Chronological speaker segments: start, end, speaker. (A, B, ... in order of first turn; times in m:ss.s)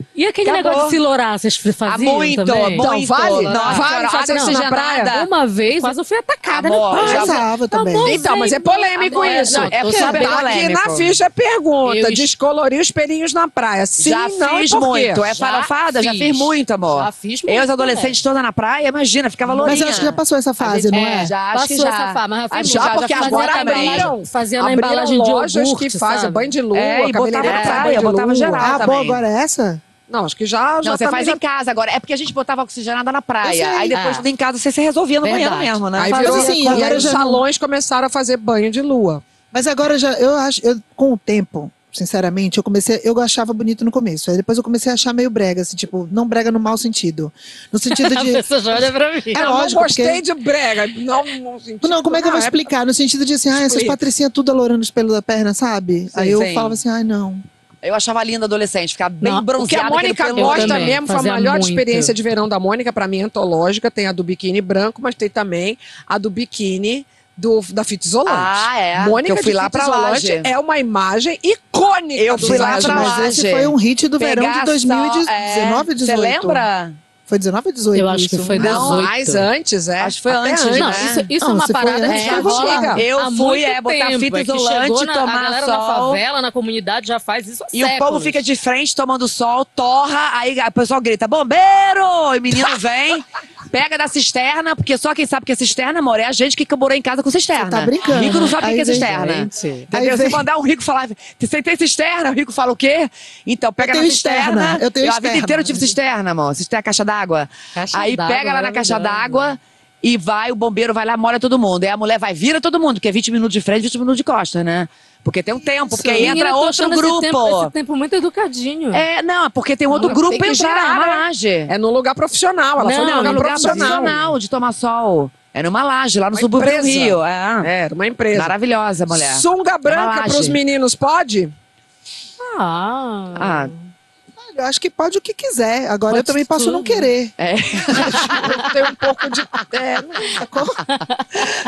0:00.1-0:02.8 A
0:00.4-0:01.0 B
0:01.8-0:05.3 B
0:02.8-0:05.1 C
0:03.4-0:10.5 A
0:06.5-0:07.4 B
0:06.9-0:08.2 D
0:08.0-0:15.3 C
0:09.0-0:11.2 B
0:11.8-0:12.3 A
0:14.0-0:24.1 B
0:15.3-0:18.2 A
0:19.4-0:20.0 A
0:19.6-0:21.3 D
0:20.9-0:26.5 A
0:22.5-0:28.9 C
0:26.7-0:29.2 B
0:27.4-0:28.1 A
0:28.6-0:29.8 D
0:30.1-0:31.4 C
0:30.8-0:37.2 B
0:33.4-0:34.0 D
0:33.9-0:34.2 A
0:35.2-0:36.7 A
0:36.0-0:39.2 C
0:36.1-0:37.4 D
0:39.5-0:48.4 D
0:47.9-0:49.4 A
0:49.3-0:50.2 D
0:49.3-0:52.7 C
0:51.8-0:57.4 D
0:53.5-0:54.0 C
0:56.3-0:56.8 B
0:57.8-1:01.0 B
0:59.2-0:59.5 A
0:59.6-1:13.3 C
1:00.4-1:02.1 A
1:08.2-1:10.5 B
1:12.2-1:17.0 B
1:12.4-1:16.7 D
1:17.3-1:18.6 D
1:17.9-1:19.5 A
1:18.6-1:19.0 B
1:18.6-1:21.1 C
1:20.0-1:21.2 B
1:20.7-1:28.4 A
1:21.4-1:23.0 D
1:22.1-1:26.2 B
1:22.1-1:23.0 C
1:27.7-1:57.7 B
1:37.6-1:40.4 D
1:43.8-1:46.0 D
1:47.7-1:49.6 A
1:56.1-1:59.0 A
1:58.9-2:01.7 B
2:00.0-2:04.3 C
2:02.8-2:04.2 A
2:03.0-2:07.7 B
2:06.3-2:08.5 C
2:08.3-2:10.6 B
2:09.1-2:11.5 C
2:12.4-2:13.7 A
2:13.4-2:13.7 B
2:14.4-2:18.2 D
2:16.1-2:17.1 A
2:17.4-2:18.5 B
2:18.0-2:20.4 C
2:18.1-2:18.6 A
2:20.4-2:20.8 D
2:20.9-2:21.4 A